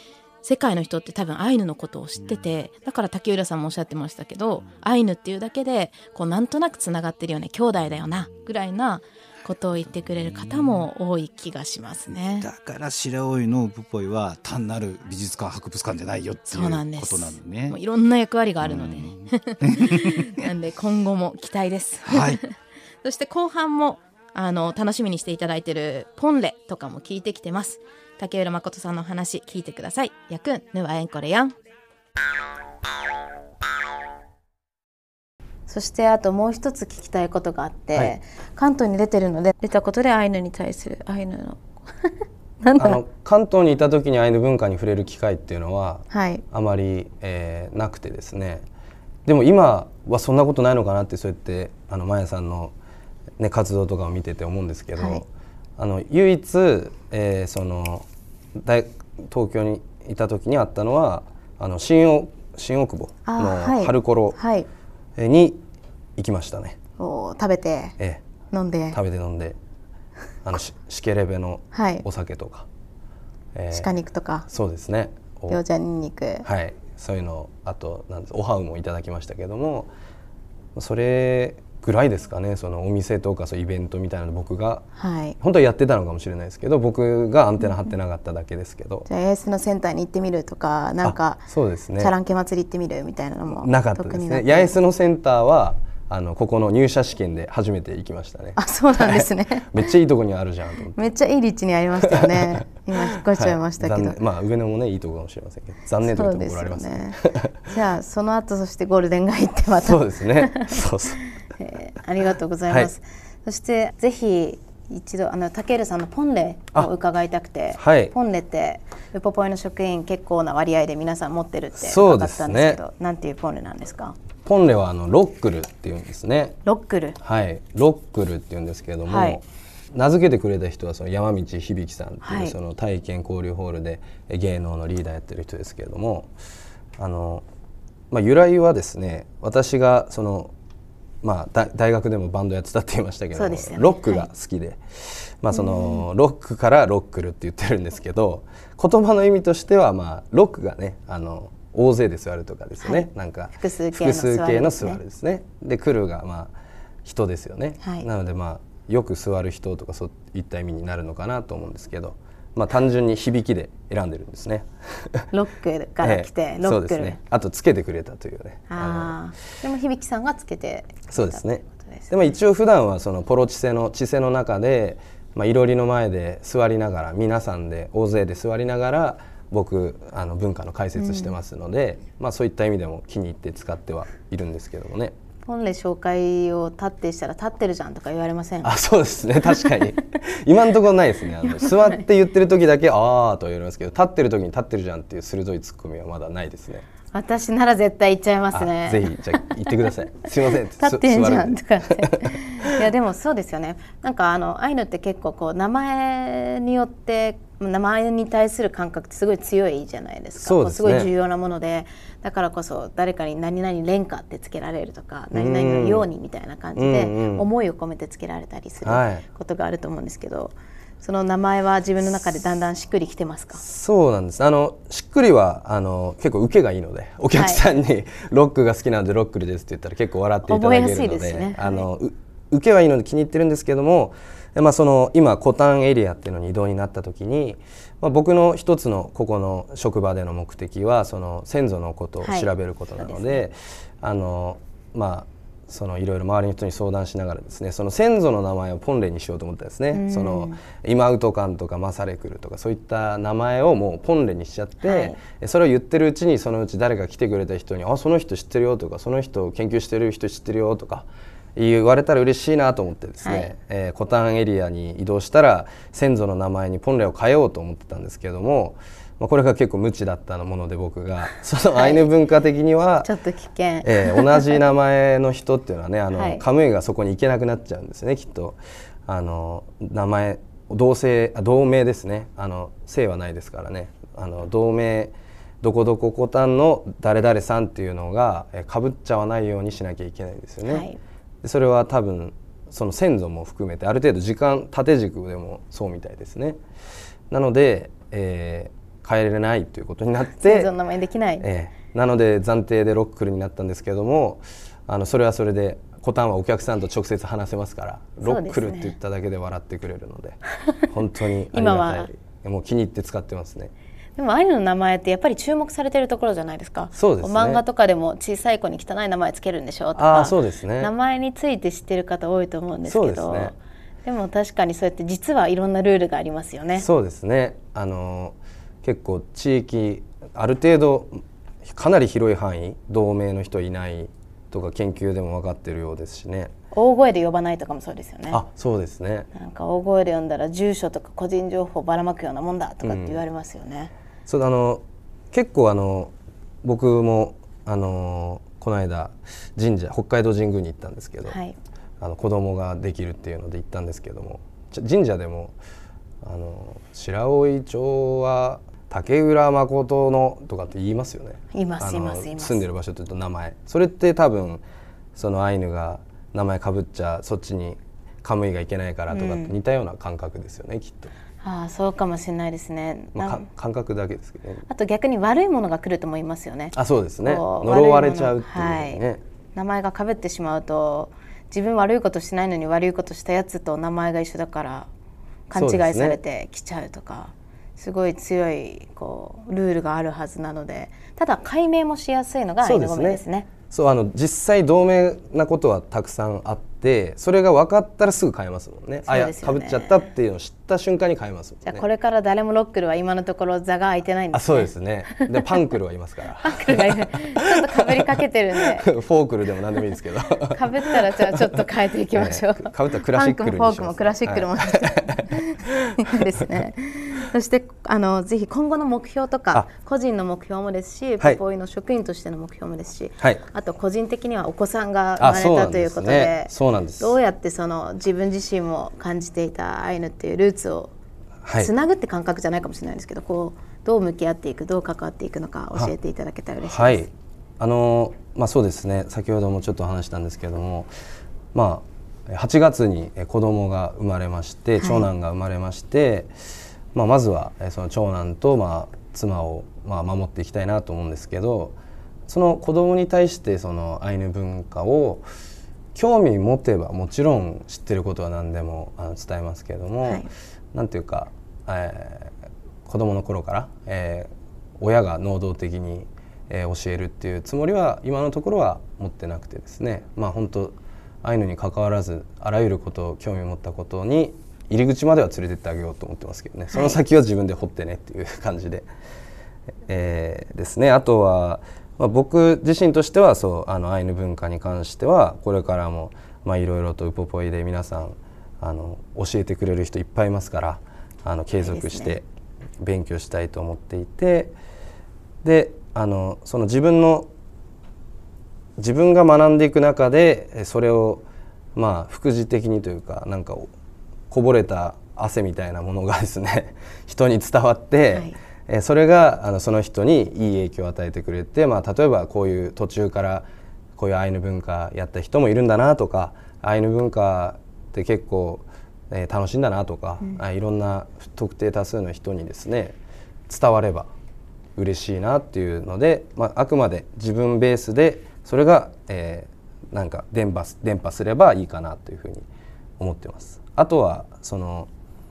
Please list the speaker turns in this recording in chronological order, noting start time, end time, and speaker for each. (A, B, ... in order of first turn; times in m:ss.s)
0:00.4-0:12.5 A
0:02.2-0:02.5 B
0:07.9-0:08.3 B
0:10.0-0:10.8 B
0:12.4-0:17.8 B
0:16.5-0:31.5 A
0:18.6-0:20.4 B
0:22.0-0:22.4 B
0:35.7-0:43.0 A
0:42.8-0:48.6 C
0:46.1-0:46.4 A
0:49.2-0:52.7 C
0:53.4-0:55.3 C
0:55.0-0:55.2 A
0:55.8-1:04.4 C
1:03.2-1:04.7 A
1:05.2-1:05.6 C
1:06.2-1:06.8 C
1:07.0-1:08.0 A
1:08.0-1:08.2 C
1:08.5-1:09.0 A
1:08.9-1:09.6 C
1:10.4-1:12.7 C
1:11.7-1:12.0 A
1:13.5-1:13.9 C
1:13.7-1:14.4 A
1:14.5-1:15.6 C
1:15.5-1:16.4 A
1:16.4-1:19.9 C
1:20.7-1:24.8 C
1:25.0-1:25.4 A
1:25.4-1:29.1 C
1:29.1-1:31.4 A
1:31.0-1:32.1 C
1:32.0-1:34.7 A
1:33.5-1:41.1 C
1:38.6-1:39.9 A
1:40.9-1:44.2 A
1:42.0-1:42.6 C
1:43.3-1:47.7 C
1:46.0-2:04.2 A
1:49.8-1:51.2 C
1:57.8-1:58.1 C
2:01.8-2:02.8 C
2:04.4-2:06.6 C
2:06.6-2:07.2 A
2:07.2-2:16.3 C
2:09.1-2:09.4 A
2:12.2-2:12.6 A
2:17.0-2:17.4 C
2:18.1-2:20.5 C
2:21.2-2:36.5 C
2:23.3-2:24.3 A
2:25.5-2:26.0 A
2:32.8-2:35.0 A
2:37.0-2:45.3 C
2:37.8-2:38.1 A
2:45.3-2:47.2 A
2:46.0-2:49.2 C
2:48.7-2:52.1 A
2:51.1-3:05.1 C
3:01.0-3:01.3 A
3:05.4-3:08.7 A
3:08.6-3:16.8 C
3:11.4-3:12.0 A
3:17.1-3:19.5 A
3:18.5-3:22.7 C
3:20.8-3:43.6 A
3:30.4-3:31.1 C
3:35.3-3:36.1 C
3:36.8-3:37.5 C
3:38.8-3:39.2 C
3:43.6-4:33.1 C
3:47.4-3:47.6 A
3:50.5-3:51.8 A
4:02.2-4:03.4 A
4:09.9-4:10.6 A
4:14.8-4:15.2 A
4:23.2-4:23.5 A
4:31.7-4:32.0 A
4:33.0-4:34.6 A
4:33.8-4:50.9 C
4:36.1-4:36.4 A
4:50.6-4:51.0 A
4:51.4-4:56.6 C
4:57.3-5:00.7 C
5:00.4-5:01.4 A
5:01.4-5:13.7 C
5:08.2-5:08.9 A
5:11.5-5:12.1 A
5:14.2-5:26.8 A
5:16.9-5:17.6 C
5:20.0-5:20.9 C
5:22.9-5:23.5 C
5:26.8-5:36.5 C
5:36.7-5:38.4 A
5:38.3-5:39.3 C
5:39.3-5:43.9 A
5:42.8-5:43.2 C
5:44.3-5:51.4 C
5:51.3-5:51.5 A
5:52.0-5:55.5 C
5:56.2-6:04.6 C
6:01.5-6:02.6 A
6:05.2-6:11.1 C
6:09.1-6:09.5 A
6:11.4-6:13.4 A
6:13.1-6:14.6 C
6:14.7-6:19.0 A
6:16.7-6:19.2 C
6:19.5-6:24.9 A
6:25.5-6:33.5 A
6:25.5-6:26.2 C
6:32.6-6:41.8 C
6:39.1-6:40.1 A
6:41.6-6:45.6 A
6:44.3-6:47.9 C
6:46.4-6:48.9 A
6:48.7-6:51.6 C
6:50.5-7:10.9 A
6:52.1-6:56.1 C
7:05.2-7:07.1 C
7:11.4-7:11.7 C
7:11.6-7:17.1 A
7:16.6-7:17.1 C
7:17.6-7:20.9 C
7:21.5-7:26.3 C
7:24.8-7:25.1 A
7:26.9-7:35.2 C
7:35.9-7:42.3 C
7:42.8-7:58.8 C
7:56.7-7:57.0 A
7:59.9-8:12.2 C
8:11.6-8:12.2 A
8:12.8-8:14.5 C
8:15.4-8:17.3 C
8:18.8-8:23.7 C
8:24.3-8:43.0 C
8:43.5-8:44.1 C
8:44.8-8:52.4 C
8:53.0-8:54.9 C